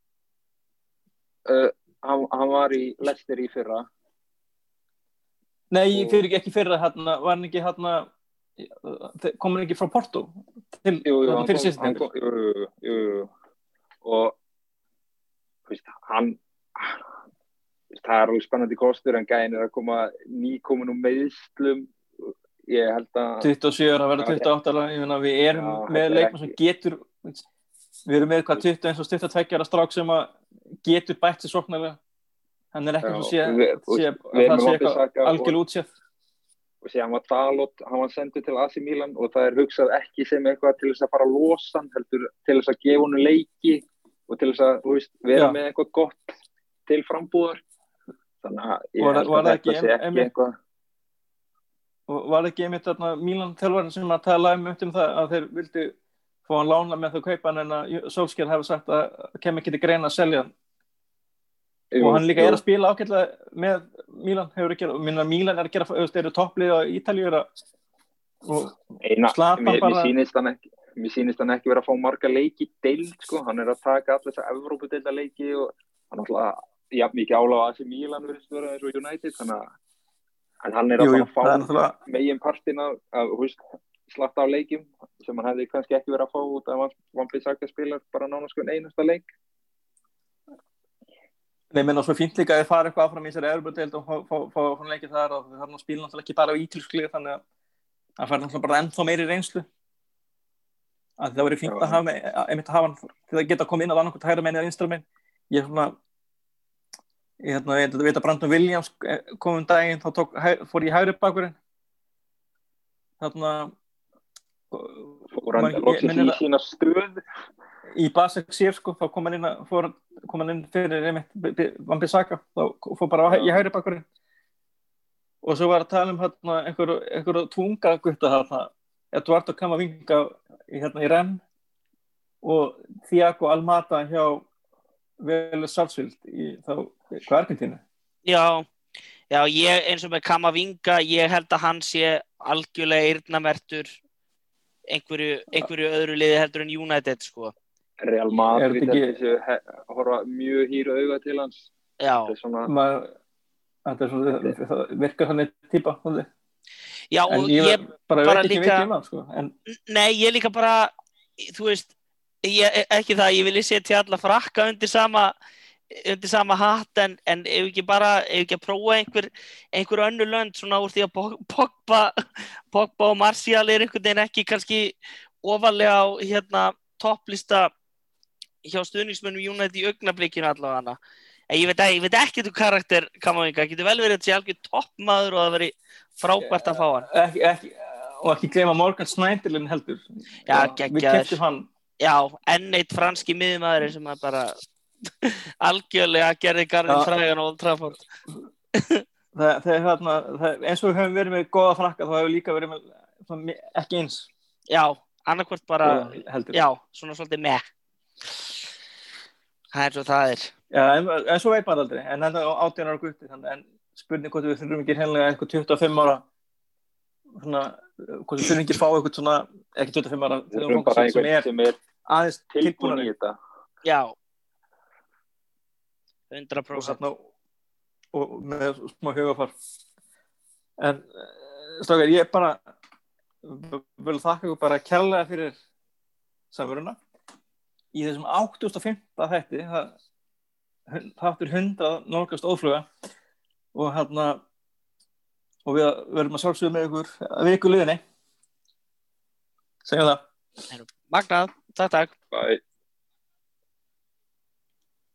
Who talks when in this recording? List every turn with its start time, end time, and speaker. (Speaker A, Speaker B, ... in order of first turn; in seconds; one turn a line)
Speaker A: 1.4-3.9
Speaker B: 5.7-12.0
Speaker A: 5.9-6.2
Speaker A: 11.0-13.3
Speaker A: 14.0-14.3
Speaker A: 15.7-17.0
Speaker A: 17.9-23.5
Speaker B: 23.4-27.4
Speaker A: 24.2-24.5
Speaker A: 25.5-26.5
Speaker B: 28.1-32.0
Speaker B: 32.7-35.9
Speaker A: 33.0-35.5
Speaker A: 36.8-47.6
Speaker A: 48.4-50.5
Speaker B: 49.0-50.3
Speaker B: 52.1-55.9
Speaker B: 56.5-60.5
Speaker A: 61.9-62.6
Speaker B: 62.0-67.5
Speaker B: 68.4-68.8
Speaker A: 69.0-79.7
Speaker B: 69.3-70.1
Speaker A: 80.6-89.2
Speaker B: 81.0-82.0
Speaker B: 91.7-97.4
Speaker B: 98.2-99.7
Speaker B: 101.2-106.0
Speaker A: 101.6-102.0
Speaker B: 107.4-111.5
Speaker B: 113.2-113.7
Speaker B: 114.7-116.4
Speaker A: 115.3-117.2
Speaker B: 117.9-124.0
Speaker A: 123.3-123.6
Speaker B: 125.4-131.4
Speaker B: 132.4-134.4
Speaker B: 135.2-137.8
Speaker C: 138.2-138.7
Speaker C: 139.3-143.9
Speaker C: 144.9-147.5
Speaker A: 148.0-151.7
Speaker B: 148.5-149.1
Speaker C: 152.0-152.3
Speaker A: 152.3-152.7
Speaker B: 152.7-153.1
Speaker B: 153.8-156.3
Speaker C: 157.1-158.9
Speaker B: 157.3-159.5
Speaker C: 159.9-161.9
Speaker C: 162.4-165.3
Speaker C: 165.9-177.7
Speaker C: 178.6-181.0
Speaker C: 181.5-187.1
Speaker B: 186.4-191.7
Speaker C: 190.5-191.4
Speaker C: 192.0-194.5
Speaker C: 195.2-198.0
Speaker C: 198.7-199.0
Speaker B: 199.3-204.3
Speaker C: 204.7-207.6
Speaker B: 205.8-206.6
Speaker C: 209.7-210.5
Speaker B: 210.7-216.2
Speaker B: 217.4-221.5
Speaker A: 220.5-221.8
Speaker B: 222.1-223.1
Speaker A: 222.5-223.3
Speaker C: 223.8-224.1
Speaker C: 226.3-227.0
Speaker B: 226.7-227.2
Speaker B: 228.1-229.5
Speaker B: 230.8-232.6
Speaker B: 233.4-235.5
Speaker B: 236.5-237.0
Speaker B: 237.9-239.9
Speaker B: 240.9-242.9
Speaker B: 243.7-244.4
Speaker B: 245.6-248.0
Speaker B: 249.8-250.2
Speaker C: 250.7-252.1
Speaker A: 252.3-252.6